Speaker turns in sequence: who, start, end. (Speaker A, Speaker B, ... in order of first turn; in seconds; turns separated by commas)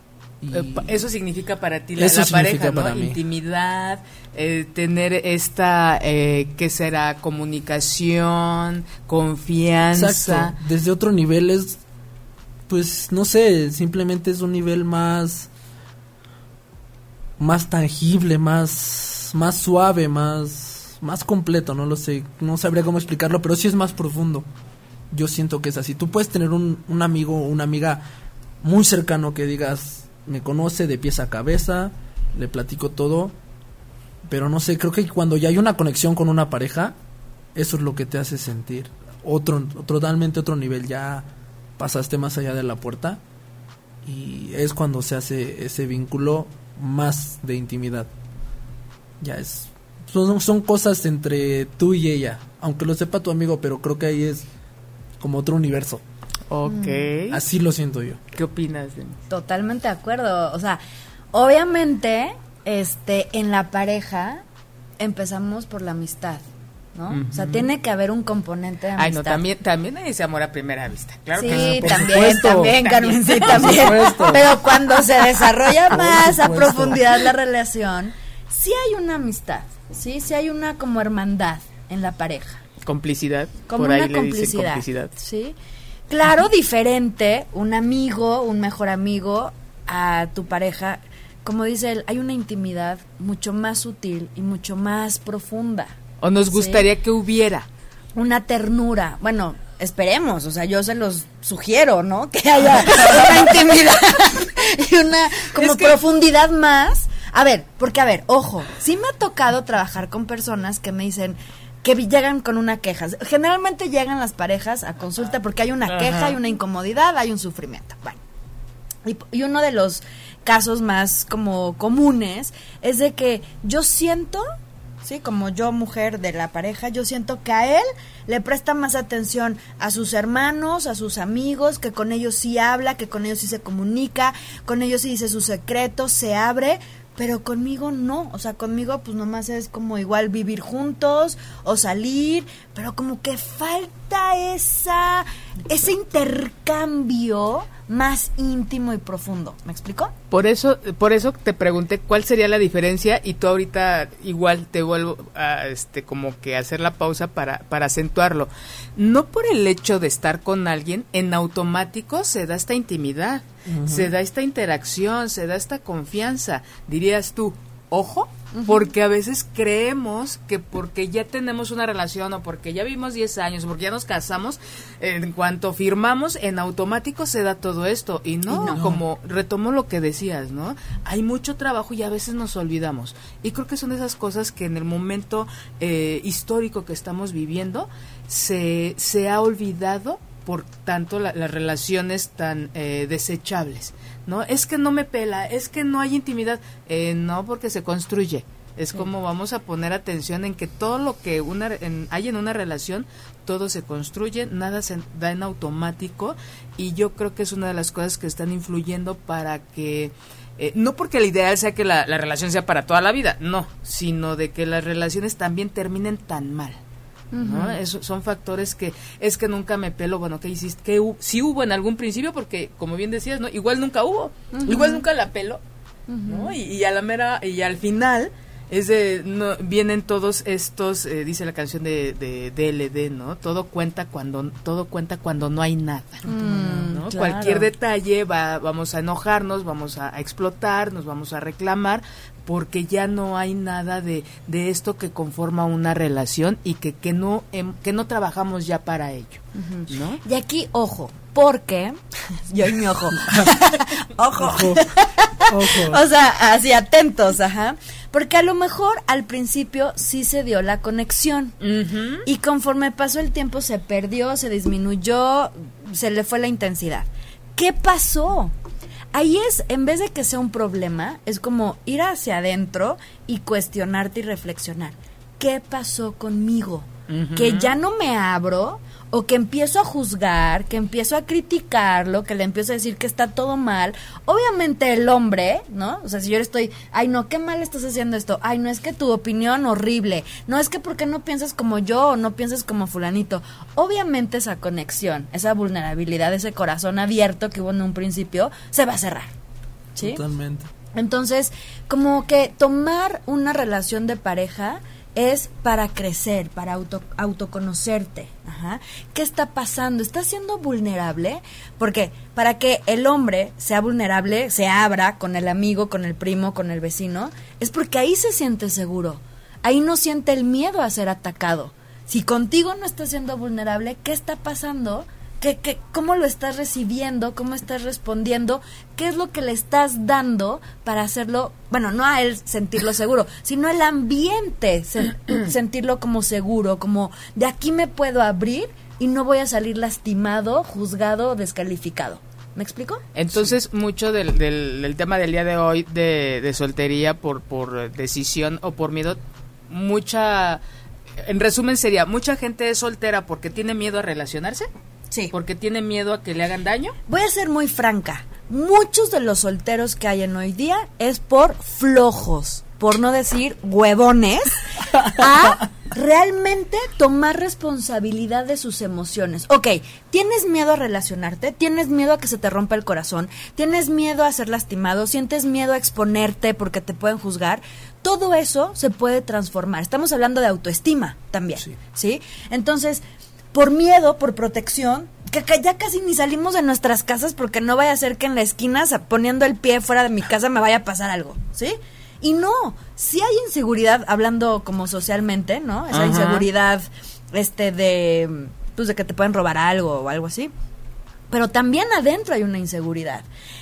Speaker A: 0.4-1.0, Speaker B: 0.5-10.5, Speaker A: 1.9-3.2, Speaker A: 9.9-11.8, Speaker A: 12.7-15.5, Speaker A: 17.4-24.5, Speaker A: 25.1-28.1, Speaker A: 28.6-33.3, Speaker A: 34.2-37.0, Speaker A: 37.5-43.2, Speaker A: 44.0-48.1, Speaker A: 49.2-54.5, Speaker A: 55.2-56.0, Speaker B: 56.5-57.4, Speaker C: 56.6-57.0, Speaker A: 57.3-58.2, Speaker B: 58.3-59.2, Speaker C: 59.3-60.8, Speaker C: 61.3-64.4, Speaker C: 65.0-69.4, Speaker B: 67.1-67.7, Speaker B: 69.0-75.5, Speaker C: 71.4-82.6, Speaker A: 71.4-72.9, Speaker A: 73.5-74.5, Speaker A: 75.9-77.1, Speaker B: 82.8-85.1, Speaker C: 83.7-85.5, Speaker C: 86.1-96.0, Speaker B: 96.2-97.7, Speaker C: 96.5-96.8, Speaker C: 98.1-118.2, Speaker B: 105.5-106.0, Speaker B: 115.9-116.4, Speaker C: 119.0-124.5, Speaker C: 125.0-150.1, Speaker B: 150.3-216.8, Speaker A: 163.7-164.1, Speaker C: 168.6-168.9, Speaker C: 178.5-178.8, Speaker C: 217.3-217.8, Speaker B: 217.4-225.6, Speaker C: 224.5-225.0, Speaker C: 226.1-226.6, Speaker B: 226.2-250.2, Speaker C: 236.2-237.7, Speaker C: 249.5-261.5, Speaker A: 253.2-253.5, Speaker A: 254.3-254.8, Speaker A: 255.5-256.0, Speaker B: 261.6-262.3, Speaker C: 262.2-268.5, Speaker C: 269.1-299.3, Speaker B: 277.1-277.7, Speaker C: 299.9-300.2, Speaker A: 300.0-300.7, Speaker C: 300.9-343.0, Speaker B: 343.1-350.6, Speaker B: 351.2-354.7, Speaker B: 355.3-357.0, Speaker C: 357.1-383.0, Speaker C: 383.5-400.5, Speaker B: 395.9-396.5, Speaker C: 401.3-403.3